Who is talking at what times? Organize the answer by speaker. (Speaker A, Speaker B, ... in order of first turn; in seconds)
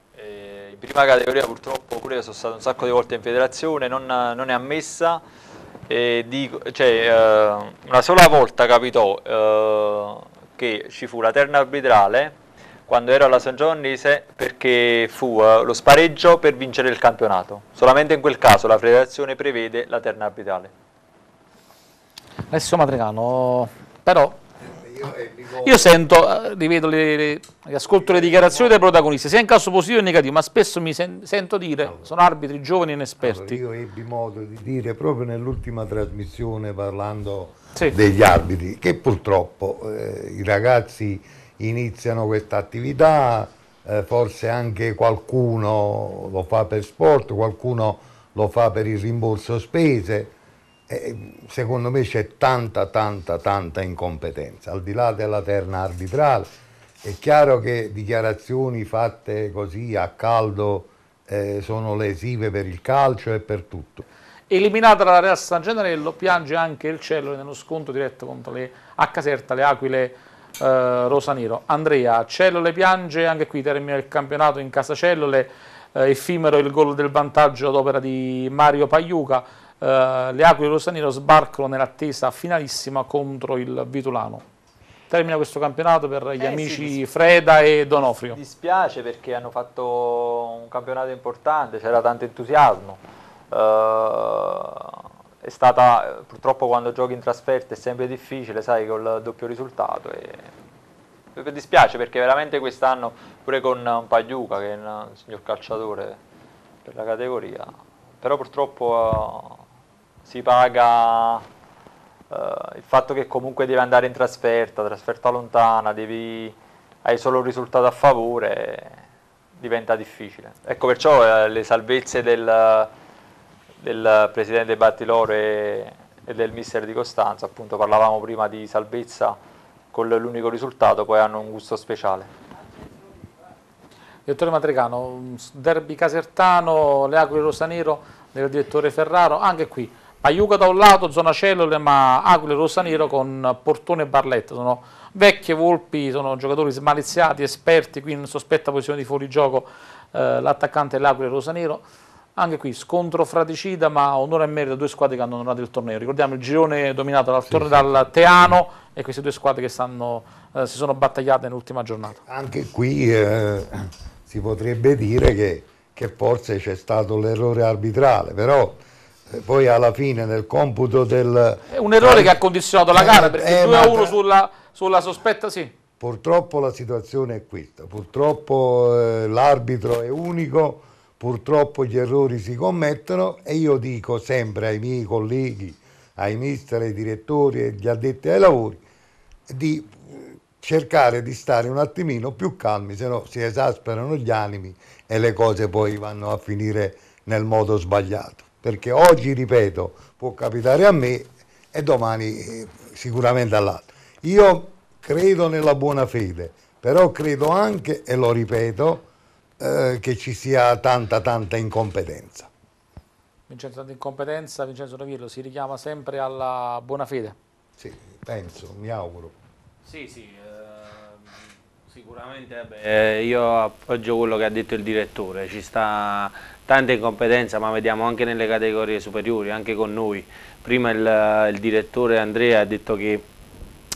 Speaker A: 0.1-5.2, 5.9-20.7, 86.4-87.0, 88.3-100.5, 101.3-106.2, 106.8-109.6, 110.2-111.5, 112.3-119.0, 119.6-122.9, 123.8-129.4, 129.9-132.3
Speaker B: 22.5-24.4, 25.6-33.6, 64.5-84.5, 85.1-88.4, 134.3-151.8, 152.4-162.2, 171.7-175.7, 213.5-217.4
Speaker C: 24.6-25.9, 28.1-28.7, 33.2-50.3, 50.9-56.5, 57.0-64.0, 157.5-157.9, 162.2-172.4, 172.9-174.2, 176.0-188.8, 189.5-209.1, 209.6-212.5, 217.8-219.3
Speaker D: 219.8-233.2